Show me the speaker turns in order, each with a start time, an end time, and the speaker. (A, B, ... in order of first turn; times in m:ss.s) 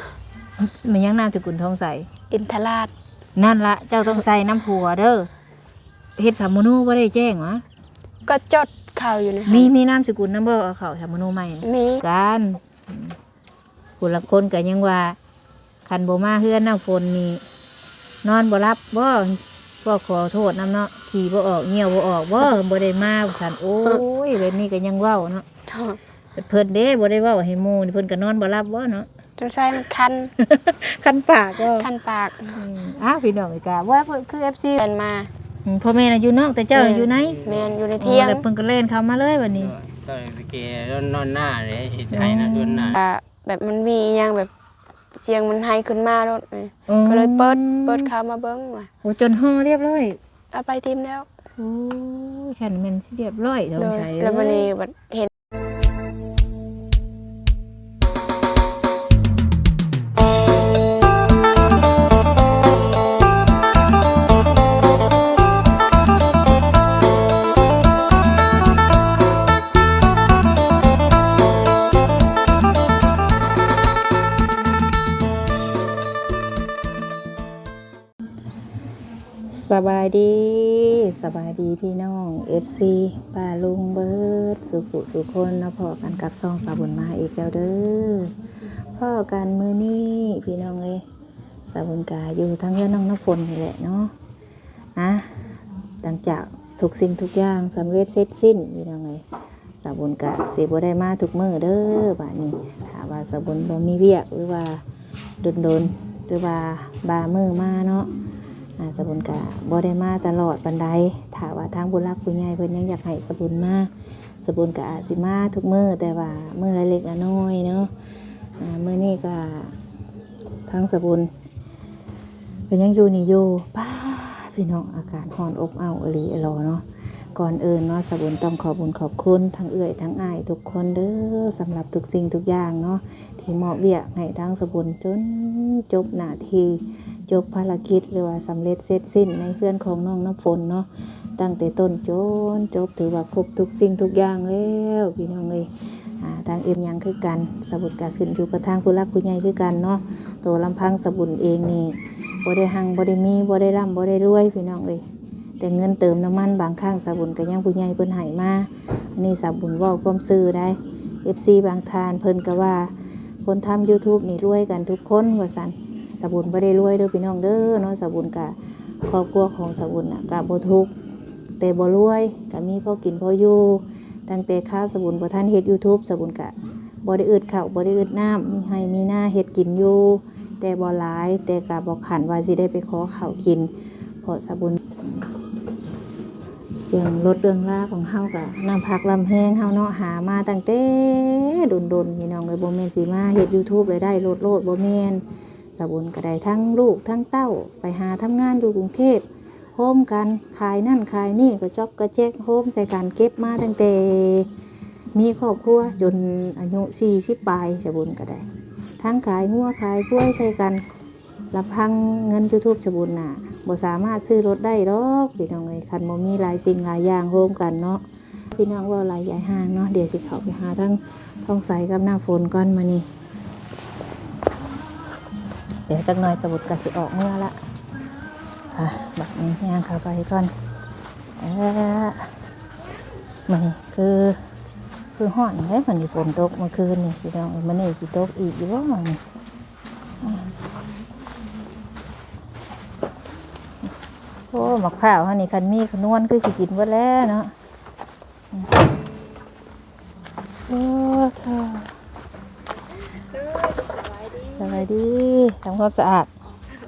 0:00.6-0:02.1 A
0:02.3-0:02.9 B
0:03.4-0:05.3 A
0:06.2-0:07.6 A
0:08.3-0:09.7 B
0:09.5-0:13.2 A
0:11.6-0:12.0 B
0:14.0-0:15.2 A
0:15.8-0:17.4 A
0:18.2-0:25.4 A
0:25.7-0:26.0 B
0:26.4-0:29.1 A
0:29.4-0:30.3 B
0:30.4-0:31.9 A
0:31.8-0:32.6 B
0:32.6-0:34.8 A
0:34.8-0:35.3 B
0:35.7-0:37.4 A
0:36.8-0:38.4 B
0:37.2-0:37.7 C
0:38.0-0:39.7 A
0:39.6-0:43.0 C
0:42.1-0:43.0 A
0:43.0-0:44.5 B
0:45.2-0:48.9 B
0:46.9-0:48.1 A
0:49.0-0:50.2 A
0:50.5-0:51.3 B
0:51.6-0:54.7 A
0:53.8-0:55.3 B
1:19.5-1:28.3 A
1:29.0-1:31.0 A
1:31.7-1:34.1 A
1:35.0-1:39.2 A
1:39.8-1:44.8 A
1:45.4-1:48.1 A
1:48.8-1:53.9 A
1:54.4-1:57.9 A
1:58.6-1:59.7 A
2:00.7-2:01.3 A
2:02.7-2:06.8 A
2:07.3-2:35.0 A
2:35.6-2:42.9 A
2:43.4-2:50.9 A
2:51.6-3:03.7 A
3:04.2-3:05.3 A
3:06.9-3:15.2 A
3:15.8-3:24.5 A
3:25.2-3:28.5 A
3:29.0-3:30.8 A
3:31.5-3:38.0 A
3:38.5-3:43.1 A
3:45.9-3:47.6 A
3:48.8-3:50.5 A
3:51.4-3:52.3 A
3:53.5-3:54.4 A
3:55.2-3:59.2 A
4:00.2-4:00.5 A
4:04.5-4:07.5 A
4:08.5-4:08.8 A
4:10.7-4:11.9 A
4:13.1-4:14.9 B
4:14.6-4:16.3 A